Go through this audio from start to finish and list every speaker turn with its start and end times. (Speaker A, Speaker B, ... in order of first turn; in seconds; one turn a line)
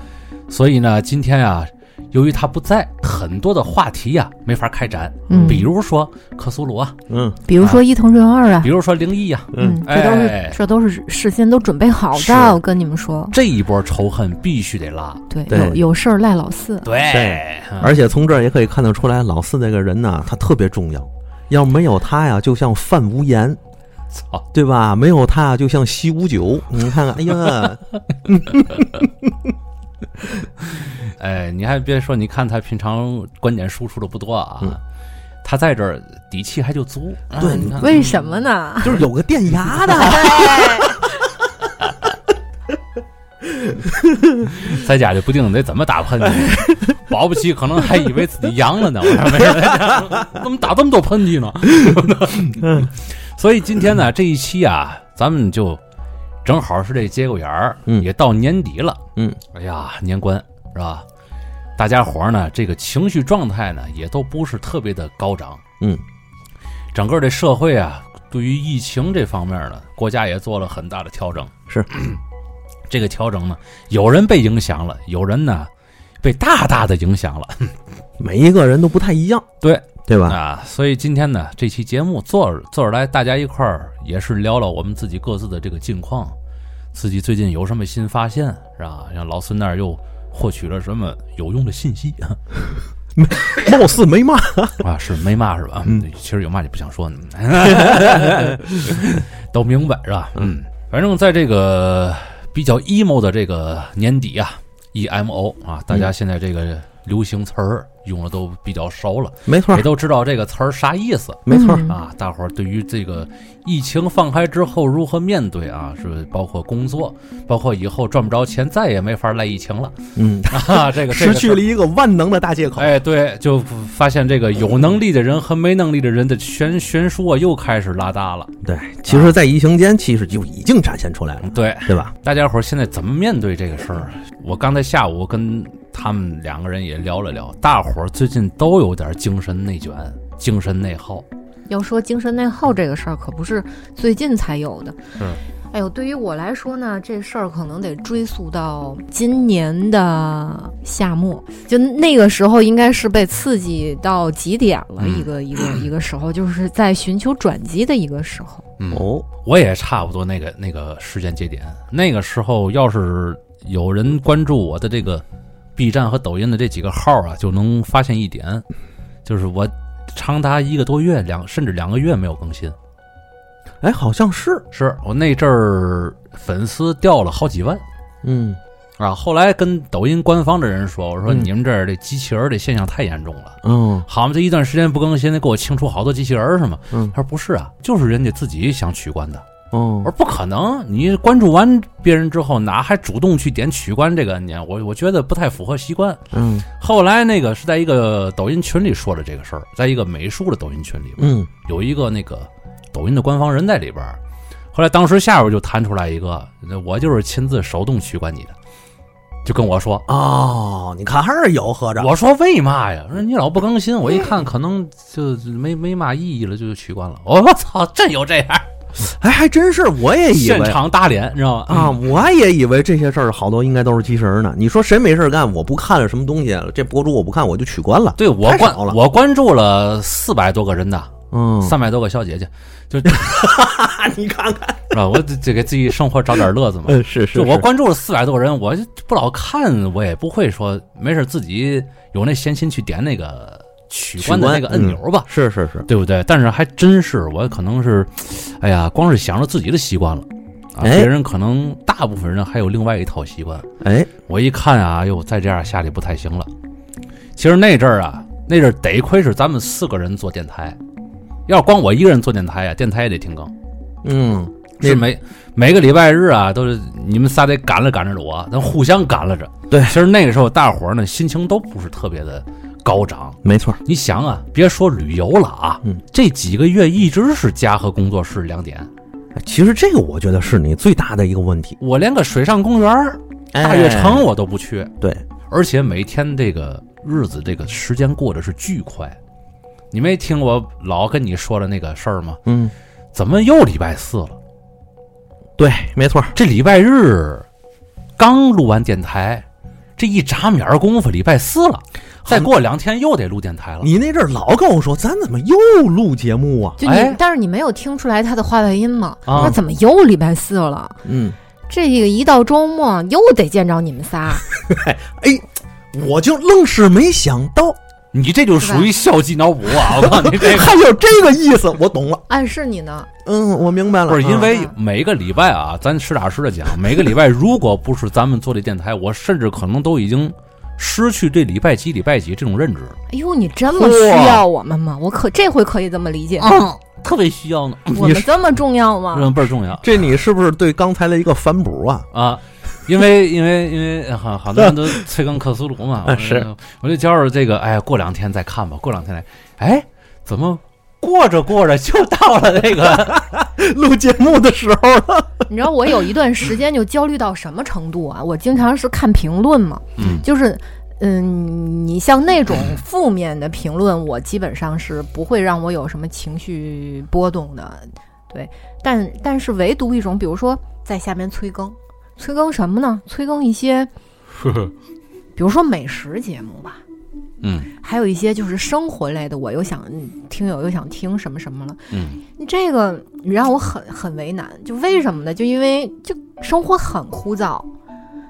Speaker A: 0.5-7.0
Speaker B: 5.3-5.7
Speaker C: 7.1-7.4
Speaker B: 7.5-8.7
Speaker A: 8.6-10.6
Speaker C: 9.5-9.8
Speaker B: 9.6-13.4
Speaker A: 13.3-15.2
Speaker B: 15.3-16.9
Speaker C: 15.5-15.8
Speaker A: 16.8-17.9
Speaker C: 17.1-23.6
Speaker A: 24.1-24.4
Speaker C: 24.5-29.3
Speaker A: 31.1-34.8
Speaker A: 35.4-37.9
Speaker C: 37.4-38.0
Speaker B: 37.4-39.0
Speaker C: 38.8-40.9
Speaker B: 39.8-41.1
Speaker C: 43.5-44.5
Speaker A: 44.5-55.8
Speaker C: 46.2-46.7
Speaker C: 52.5-52.9
Speaker A: 56.4-59.0
Speaker A: 59.5-61.0
Speaker A: 61.8-65.6
Speaker A: 66.9-72.2
Speaker A: 72.9-75.7
Speaker A: 76.2-77.7
Speaker C: 78.2-79.5
Speaker A: 79.6-86.3
Speaker C: 80.0-80.4
Speaker A: 86.9-92.4
Speaker C: 93.1-94.8
Speaker A: 94.8-120.0
Speaker C: 97.6-99.0
Speaker C: 109.5-109.9
Speaker C: 111.5-111.9
Speaker B: 111.5-111.9
Speaker C: 120.2-122.9
Speaker A: 120.5-121.6
Speaker A: 122.8-128.5
Speaker C: 128.6-132.1
Speaker A: 129.1-129.3
Speaker A: 131.5-141.2
Speaker B: 141.7-145.0
Speaker B: 145.7-158.6
Speaker A: 155.0-155.3
Speaker A: 158.8-165.2
Speaker C: 158.9-159.2
Speaker A: 165.8-168.6
Speaker A: 169.2-172.7
Speaker C: 173.8-174.6
Speaker A: 174.7-177.8
Speaker C: 178.2-178.6
Speaker A: 179.0-189.4
Speaker C: 183.6-184.1
Speaker C: 189.7-190.1
Speaker A: 190.0-196.2
Speaker C: 196.3-196.7
Speaker A: 196.8-204.2
Speaker C: 201.2-201.5
Speaker A: 204.7-208.5
Speaker A: 209.4-210.0
Speaker C: 210.1-212.1
Speaker A: 212.0-218.7
Speaker C: 219.0-220.8
Speaker A: 220.3-222.0
Speaker C: 221.7-229.0
Speaker A: 228.2-231.1
Speaker C: 231.3-231.8
Speaker A: 231.6-233.4
Speaker C: 233.1-235.0
Speaker A: 234.9-245.3
Speaker C: 236.8-237.7
Speaker C: 244.2-245.9
Speaker A: 245.9-253.7
Speaker C: 250.8-251.1
Speaker C: 253.8-254.1
Speaker A: 254.3-256.5
Speaker A: 257.4-260.8
Speaker A: 261.5-263.5
Speaker C: 264.0-265.0
Speaker A: 264.8-278.9
Speaker C: 269.7-270.0
Speaker C: 273.4-273.8
Speaker C: 279.4-281.8
Speaker A: 281.8-284.9
Speaker C: 283.5-284.2
Speaker A: 285.5-289.2
Speaker A: 289.9-292.4
Speaker C: 292.4-292.7
Speaker A: 293.1-294.4
Speaker C: 295.6-296.3
Speaker A: 296.3-297.4
Speaker A: 298.2-299.4
Speaker A: 300.0-303.9
Speaker C: 303.8-306.8
Speaker B: 306.8-311.0
Speaker A: 306.8-307.1
Speaker A: 309.3-309.6
Speaker C: 309.3-309.6
Speaker C: 311.0-311.4
Speaker B: 311.7-314.4
Speaker C: 314.6-317.8
Speaker A: 318.1-320.8
Speaker B: 318.6-318.9
Speaker C: 319.9-322.2
Speaker B: 322.3-323.1
Speaker C: 323.2-324.5
Speaker A: 324.1-332.9
Speaker B: 324.4-324.7
Speaker B: 333.1-336.5
Speaker C: 333.7-334.4
Speaker A: 336.4-338.1
Speaker B: 337.9-339.3
Speaker C: 338.0-338.3
Speaker A: 339.1-339.9
Speaker C: 339.8-342.1
Speaker A: 342.1-353.2
Speaker C: 344.6-345.0
Speaker C: 346.0-346.5
Speaker C: 352.8-355.4
Speaker B: 355.5-373.9
Speaker A: 360.0-360.2
Speaker A: 374.4-374.7
Speaker B: 375.4-376.8
Speaker A: 377.4-377.7
Speaker B: 377.8-387.7
Speaker A: 381.9-382.2